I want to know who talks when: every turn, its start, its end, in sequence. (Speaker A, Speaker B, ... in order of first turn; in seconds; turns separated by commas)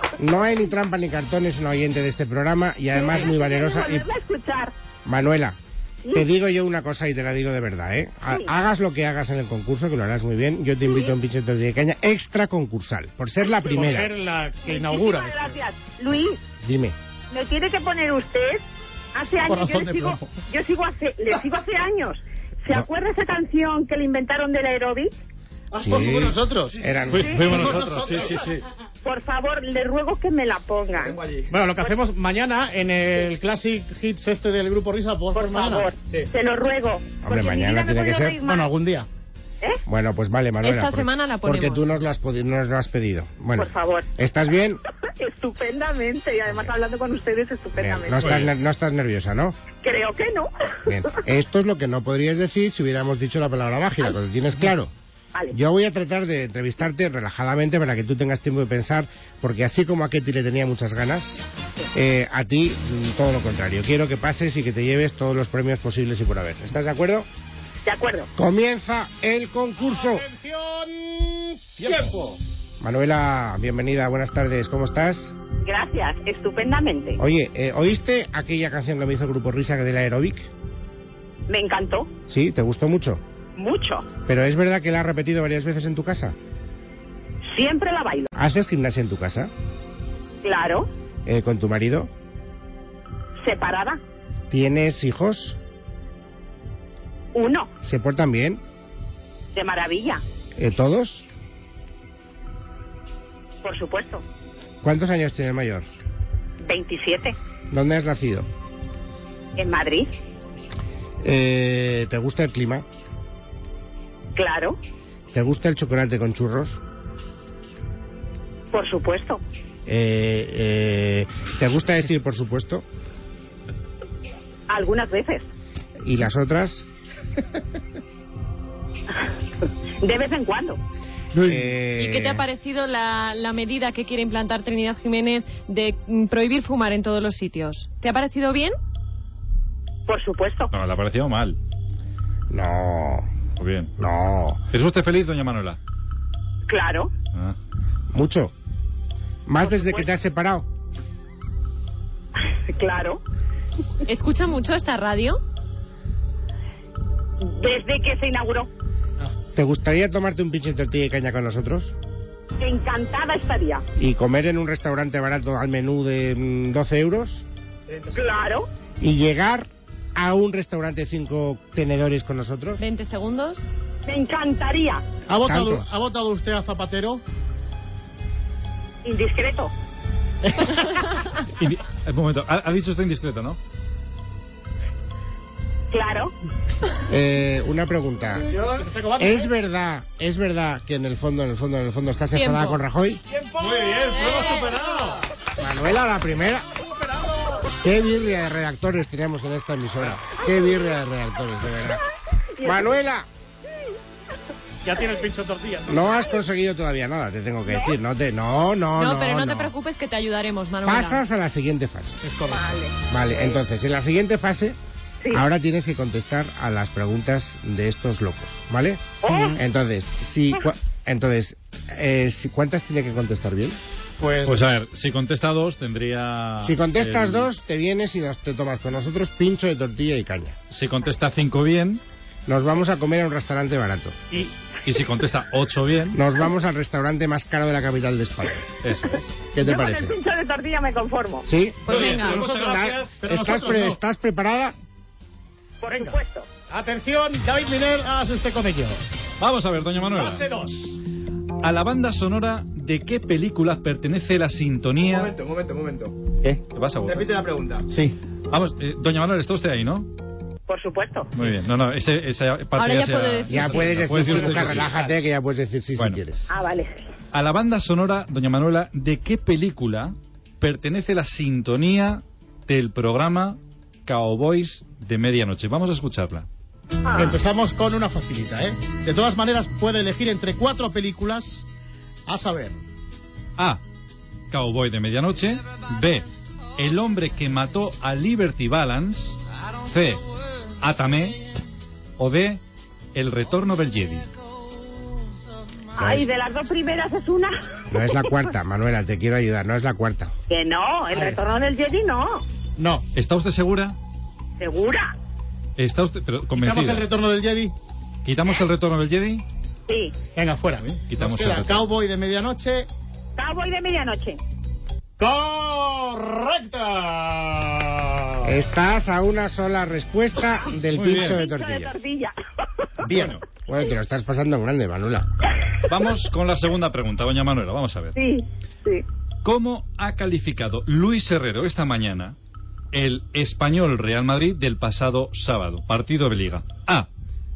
Speaker A: 0.2-4.1, Speaker B: 2.9-4.7, Speaker A: 5.0-5.6, Speaker A: 6.1-14.1, Speaker B: 13.5-13.9, Speaker C: 13.7-15.5, Speaker B: 14.6-16.4, Speaker A: 16.6-16.9, Speaker B: 17.3-18.6, Speaker B: 19.1-25.1, Speaker C: 19.4-20.3, Speaker C: 25.7-28.5, Speaker A: 25.8-27.9, Speaker B: 27.1-27.4, Speaker D: 27.2-28.3, Speaker E: 27.3-28.5, Speaker B: 29.0-31.2, Speaker C: 31.2-36.2, Speaker B: 35.3-38.7, Speaker A: 37.2-38.4, Speaker C: 38.4-39.1, Speaker A: 39.9-44.8, Speaker F: 40.6-41.9, Speaker B: 43.6-44.1, Speaker B: 45.1-48.4, Speaker A: 47.8-49.6, Speaker B: 49.8-50.5, Speaker A: 50.9-54.9, Speaker A: 55.5-67.3, Speaker B: 67.8-68.3, Speaker A: 68.3-70.3, Speaker C: 69.8-72.2, Speaker A: 72.8-75.3, Speaker B: 75.6-77.2, Speaker A: 77.2-80.5, Speaker B: 81.5-82.1, Speaker A: 82.3-83.2, Speaker B: 83.6-84.1, Speaker A: 84.3-86.3, Speaker B: 87.5-88.3, Speaker A: 88.3-89.5, Speaker B: 90.4-90.9, Speaker A: 91.2-92.1, Speaker B: 93.4-94.0, Speaker A: 94.5-95.6, Speaker B: 97.3-97.7, Speaker A: 97.8-98.6, Speaker B: 99.5-100.2, Speaker A: 100.5-101.3, Speaker B: 103.6-104.2, Speaker A: 104.8-105.9, Speaker B: 106.6-107.3, Speaker A: 107.7-108.5, Speaker B: 109.5-110.1, Speaker A: 111.2-112.8, Speaker B: 114.3-114.8, Speaker A: 115.3-116.8, Speaker B: 118.7-119.4, Speaker A: 119.8-122.8, Speaker B: 124.7-125.5, Speaker A: 126.0-126.8, Speaker B: 130.0-130.8, Speaker A: 131.3-132.4, Speaker F: 131.9-138.8, Speaker B: 140.1-140.7, Speaker D: 140.7-141.6, Speaker A: 142.5-143.3, Speaker D: 143.6-143.9, Speaker A: 144.0-144.6, Speaker D: 144.7-145.8, Speaker B: 146.7-147.1, Speaker A: 148.1-148.5, Speaker A: 149.4-150.7, Speaker B: 149.6-150.1, Speaker B: 152.5-153.2, Speaker F: 154.1-155.4, Speaker B: 157.4-158.7, Speaker A: 159.5-161.9, Speaker B: 162.6-163.8, Speaker A: 164.0-167.4, Speaker C: 167.9-168.1, Speaker B: 168.1-168.7, Speaker A: 169.0-172.8, Speaker F: 172.8-173.7, Speaker B: 174.1-175.0, Speaker C: 175.3-177.2, Speaker A: 175.5-175.8, Speaker B: 179.0-179.7, Speaker C: 180.4-181.1, Speaker D: 181.6-183.6, Speaker B: 185.9-186.3, Speaker A: 187.1-188.5, Speaker C: 188.4-189.5, Speaker A: 189.2-193.2, Speaker F: 192.3-192.8, Speaker C: 193.3-195.2, Speaker E: 193.6-194.8, Speaker A: 195.6-196.7, Speaker C: 196.8-197.7, Speaker A: 197.8-202.0, Speaker B: 202.6-202.9, Speaker A: 202.6-203.3, Speaker C: 204.8-206.2, Speaker A: 205.9-209.7, Speaker B: 207.7-207.9, Speaker F: 208.9-211.2, Speaker A: 210.8-212.2, Speaker C: 212.2-212.6, Speaker B: 212.5-213.6, Speaker A: 213.1-214.8, Speaker A: 215.3-223.8, Speaker B: 219.2-219.6, Speaker C: 224.2-224.6, Speaker D: 224.4-227.5, Speaker A: 226.6-230.6, Speaker D: 230.7-232.0, Speaker A: 232.5-234.3, Speaker D: 234.3-236.2, Speaker A: 236.1-238.6, Speaker D: 238.8-239.3, Speaker A: 239.5-240.1, Speaker B: 239.6-241.5, Speaker A: 241.4-244.7, Speaker C: 241.9-244.0, Speaker F: 241.9-242.4, Speaker E: 241.9-242.8, Speaker B: 245.8-246.5, Speaker C: 245.9-246.2, Speaker C: 246.7-249.0, Speaker D: 249.4-250.5, Speaker C: 250.1-251.0, Speaker D: 251.6-255.4, Speaker E: 255.6-255.9, Speaker C: 256.4-258.1, Speaker D: 256.7-257.4, Speaker D: 258.5-260.1, Speaker B: 260.7-261.3, Speaker D: 261.3-264.9, Speaker F: 262.7-264.0, Speaker A: 263.5-266.4, Speaker C: 264.3-265.1, Speaker B: 266.5-267.0, Speaker D: 267.3-276.5, Speaker B: 277.0-277.4, Speaker C: 277.1-281.6, Speaker C: 282.3-282.8, Speaker D: 284.5-290.2, Speaker D: 290.8-291.4, Speaker D: 292.2-292.6, Speaker D: 293.1-294.2, Speaker B: 295.9-297.6, Speaker A: 297.9-300.3, Speaker B: 300.5-302.4, Speaker C: 302.8-303.1, Speaker D: 303.1-303.9, Speaker B: 304.6-305.1, Speaker D: 305.8-307.1, Speaker C: 306.6-307.7, Speaker D: 308.2-309.4, Speaker B: 309.9-310.1, Speaker C: 310.4-312.9, Speaker D: 310.8-311.9, Speaker B: 313.4-314.4, Speaker C: 315.2-318.5, Speaker A: 318.4-321.9, Speaker D: 320.9-321.4, Speaker B: 321.1-322.3, Speaker D: 323.0-323.4, Speaker A: 323.1-325.3, Speaker D: 325.9-328.1, Speaker B: 328.1-329.0, Speaker D: 329.4-332.4, Speaker D: 332.9-337.1